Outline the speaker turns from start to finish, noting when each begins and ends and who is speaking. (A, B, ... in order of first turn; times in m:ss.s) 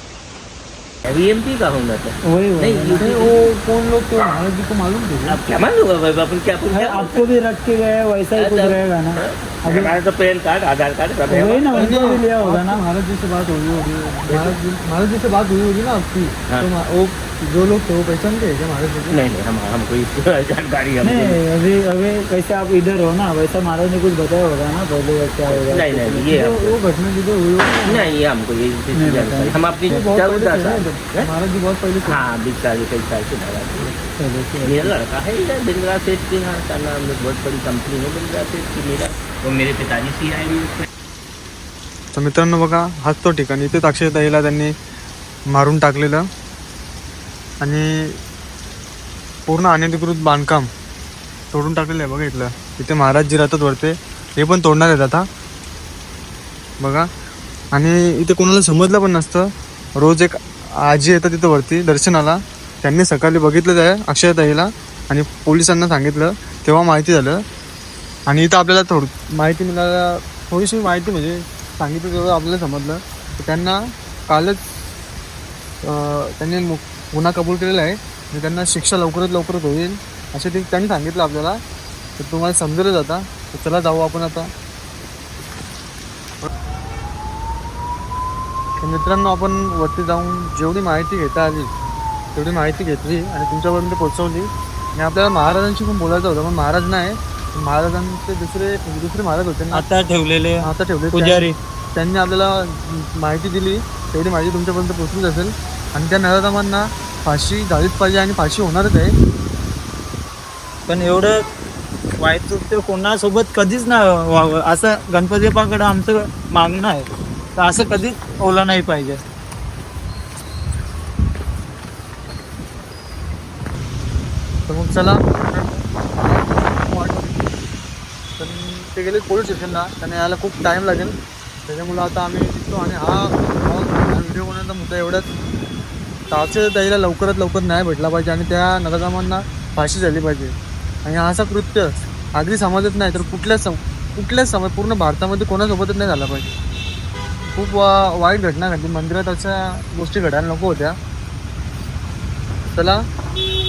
0:01.0-0:03.5 A
0:02.3-0:03.0 B
0:03.0-0:05.4 C
0:05.3-0:07.3 A
0:06.7-0:09.9 B
0:08.3-0:12.1 A
0:11.3-0:12.8 B
0:11.7-0:19.2 C
0:14.3-0:14.6 A
0:19.1-0:21.4 A
0:21.0-0:26.5 B
0:25.5-0:26.8 A
0:26.4-0:28.1 C
0:27.8-0:31.3 A
0:28.9-0:30.0 B
0:29.9-0:32.2 C
0:32.0-0:33.9 A
0:34.0-0:34.9 B
0:34.6-0:40.9 A
0:42.2-0:44.7 C
0:45.5-0:46.2 C
0:47.6-0:47.9 C
0:49.5-0:50.7 C
0:51.5-0:55.2 C
0:56.8-0:57.0 C
0:57.7-0:59.5 C
1:00.0-1:07.4 C
1:08.3-1:14.6 C
1:15.8-1:21.6 C
1:22.2-1:24.5 C
1:28.8-1:31.7 C
1:32.3-1:39.8 C
1:39.7-1:41.5 B
1:40.6-1:49.1 C
1:50.9-1:51.4 B
1:52.2-1:59.2 B
2:04.7-2:07.5 C
2:08.4-2:11.1 C
2:11.7-2:15.2 C
2:16.3-2:20.5 C
2:21.0-2:26.5 C
2:27.5-2:30.9 C
2:32.7-2:33.0 C